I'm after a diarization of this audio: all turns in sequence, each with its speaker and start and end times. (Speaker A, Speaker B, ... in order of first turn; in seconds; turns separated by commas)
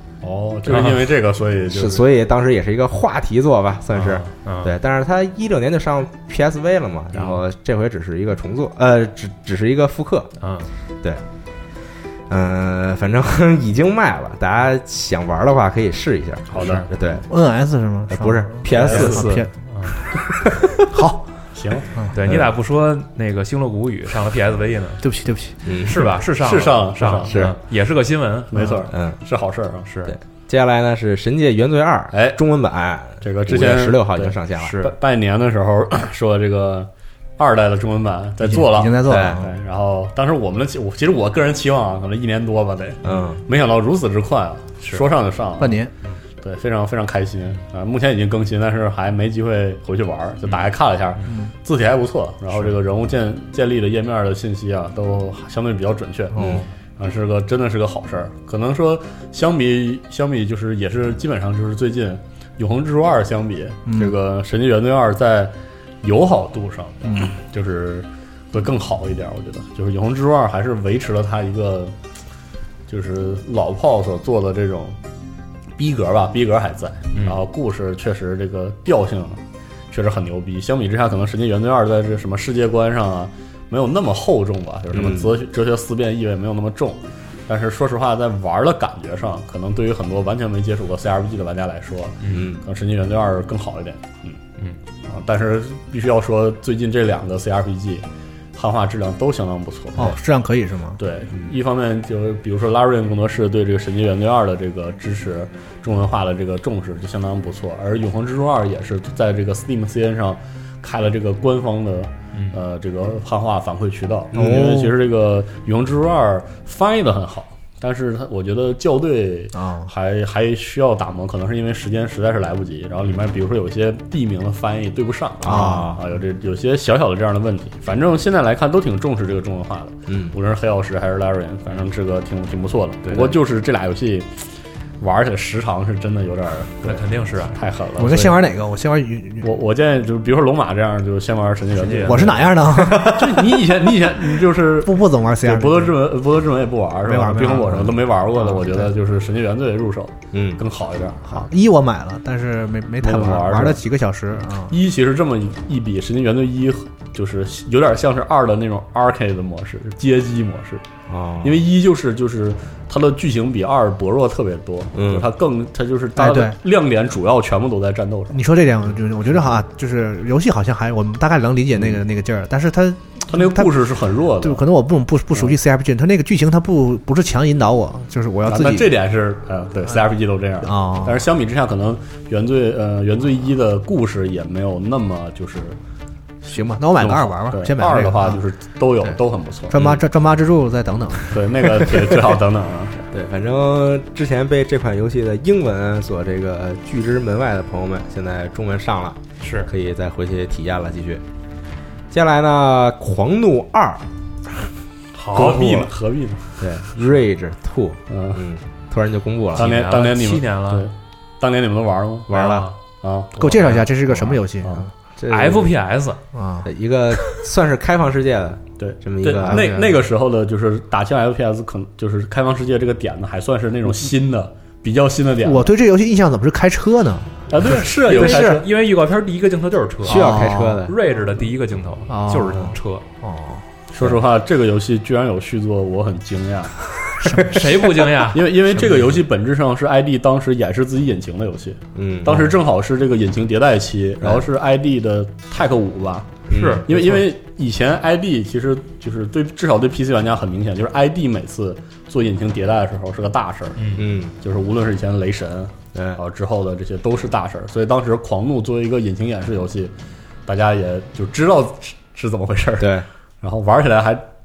Speaker A: 0.2-2.1, Speaker B: 0.7-1.0, Speaker C: 1.7-10.3, Speaker B: 3.9-4.7, Speaker B: 10.4-10.7, Speaker C: 12.3-17.3, Speaker A: 16.5-16.8, Speaker B: 16.6-16.9, Speaker D: 17.3-19.5, Speaker C: 18.1-19.3, Speaker A: 18.7-19.2, Speaker B: 18.8-20.0, Speaker C: 20.3-20.7, Speaker D: 20.9-21.2, Speaker A: 21.5-21.9, Speaker B: 22.1-25.0, Speaker D: 25.0-25.7, Speaker C: 25.6-26.0, Speaker B: 25.8-28.8, Speaker A: 26.1-27.5, Speaker C: 27.3-27.6, Speaker A: 28.5-29.9, Speaker D: 28.5-28.9, Speaker C: 28.9-29.2, Speaker B: 29.8-30.1, Speaker C: 30.1-34.7, Speaker A: 32.1-32.4, Speaker A: 33.2-45.8, Speaker B: 34.6-34.9, Speaker D: 38.4-39.5, Speaker C: 39.1-39.4, Speaker C: 43.0-43.4, Speaker D: 45.6-45.9, Speaker A: 46.4-71.9, Speaker C: 56.4-56.6, Speaker D: 63.9-64.1, Speaker A: 72.9-75.0, Speaker A: 75.8-94.4, Speaker B: 77.1-77.4, Speaker C: 84.9-85.3, Speaker B: 92.2-92.5, Speaker C: 92.3-92.6, Speaker A: 95.1-98.0, Speaker A: 98.5-100.2, Speaker D: 99.9-101.0, Speaker A: 101.0-138.4, Speaker C: 114.3-114.8, Speaker D: 114.3-114.9, Speaker D: 119.5-119.9, Speaker C: 125.4-126.0, Speaker D: 125.4-125.9, Speaker C: 130.1-130.3, Speaker B: 136.8-137.6, Speaker D: 138.0-139.5, Speaker A: 139.4-151.5, Speaker B: 141.8-142.3, Speaker D: 142.0-143.5, Speaker C: 142.8-143.1, Speaker D: 144.8-145.9, Speaker D: 147.0-148.9, Speaker C: 150.3-150.6, Speaker D: 151.3-154.8, Speaker A: 153.0-153.8, Speaker A: 154.6-160.8, Speaker C: 161.1-161.6, Speaker A: 161.4-168.4, Speaker C: 164.9-165.3, Speaker D: 166.2-166.6, Speaker D: 168.3-173.7, Speaker A: 173.3-174.6, Speaker D: 174.4-178.9, Speaker A: 178.4-185.8, Speaker D: 180.6-181.2, Speaker D: 186.4-188.4, Speaker A: 187.0-189.8, Speaker D: 189.7-191.4, Speaker C: 189.7-190.0, Speaker A: 191.3-193.1, Speaker C: 193.1-201.2, Speaker B: 199.4-199.7, Speaker C: 202.1-204.0, Speaker B: 205.2-205.8, Speaker A: 205.3-206.7, Speaker C: 206.6-209.7, Speaker A: 208.1-208.4, Speaker A: 209.5-212.3, Speaker B: 209.6-210.9, Speaker C: 212.3-212.7, Speaker B: 212.3-212.8, Speaker A: 213.0-214.9, Speaker D: 213.4-214.8, Speaker B: 213.4-213.8, Speaker C: 215.2-215.7, Speaker B: 215.3-216.2, Speaker D: 216.3-216.7, Speaker C: 216.6-219.7, Speaker A: 218.8-225.7, Speaker B: 219.3-220.0, Speaker D: 225.4-227.3, Speaker A: 227.5-228.7, Speaker B: 227.9-233.0, Speaker C: 228.1-228.6, Speaker D: 230.1-230.9, Speaker C: 230.1-230.9, Speaker D: 232.1-233.6, Speaker A: 233.9-236.8, Speaker D: 237.2-237.6, Speaker B: 237.4-238.5, Speaker A: 238.3-259.9, Speaker C: 241.9-242.5, Speaker C: 246.5-247.0, Speaker B: 246.5-246.9, Speaker B: 253.8-254.1, Speaker C: 253.9-254.3, Speaker C: 255.9-256.2, Speaker A: 260.4-264.2, Speaker C: 262.8-263.1